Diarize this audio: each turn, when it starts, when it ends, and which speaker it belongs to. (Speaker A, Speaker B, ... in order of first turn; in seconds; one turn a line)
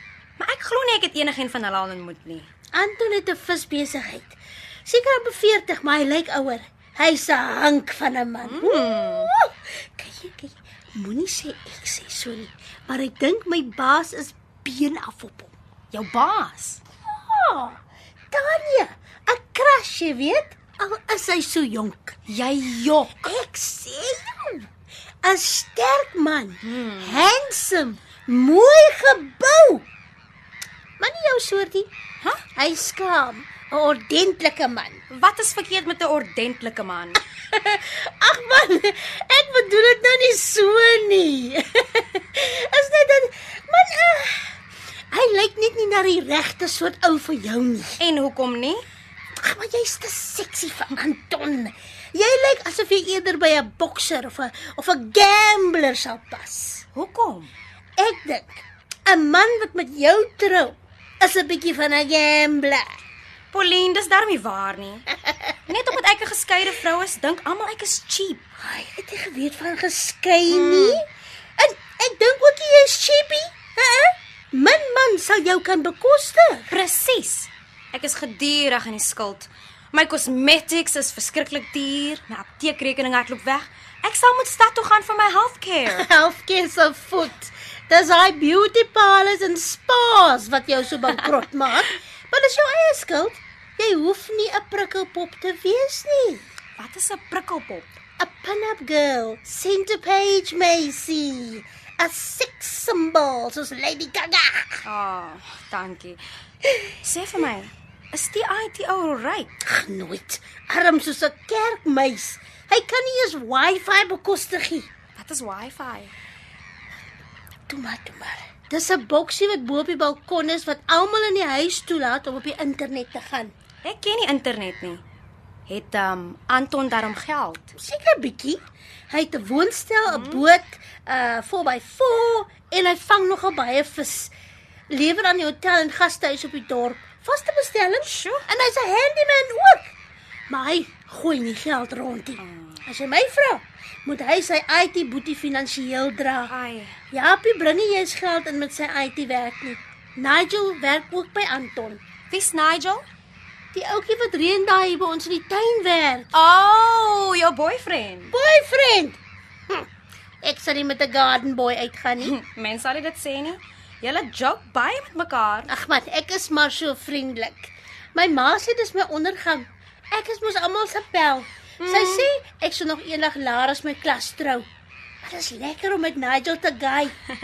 Speaker A: 0.4-2.5
Speaker B: 2.7-15.5
Speaker A: 8.4-9.3
Speaker A: 15.9-16.8
Speaker B: 17.1-17.8
Speaker B: 18.3-22.1
Speaker A: 22.3-23.3
Speaker B: 23.2-24.7
Speaker B: 25.2-29.9
Speaker A: 26.6-27.3
Speaker B: 31.0-31.9
Speaker B: 32.6-35.0
Speaker A: 35.1-37.2
Speaker B: 37.5-44.5
Speaker B: 45.1-48.0
Speaker A: 48.0-48.8
Speaker B: 49.4-56.8
Speaker A: 56.9-57.5
Speaker B: 58.0-62.8
Speaker A: 63.5-65.1
Speaker A: 65.7-68.4
Speaker B: 68.6-71.0
Speaker A: 70.5-71.0
Speaker B: 71.6-76.7
Speaker A: 76.7-86.0
Speaker B: 85.9-96.5
Speaker A: 96.8-97.9
Speaker B: 98.2-104.8
Speaker A: 104.8-106.2
Speaker A: 107.0-109.5
Speaker B: 109.6-114.9
Speaker A: 115.2-116.1
Speaker B: 117.7-123.5
Speaker A: 123.8-125.0
Speaker A: 125.7-127.7
Speaker B: 127.8-134.3
Speaker A: 130.1-130.4
Speaker B: 134.9-139.9
Speaker A: 138.0-138.4
Speaker B: 140.5-146.5
Speaker A: 142.4-142.8
Speaker A: 146.5-146.9
Speaker B: 147.1-152.0
Speaker A: 152.3-153.1
Speaker B: 153.7-156.3
Speaker A: 156.3-158.3
Speaker B: 158.3-159.2
Speaker B: 160.4-162.3
Speaker A: 162.2-165.7
Speaker B: 165.7-174.7
Speaker A: 171.8-172.3
Speaker B: 175.2-177.1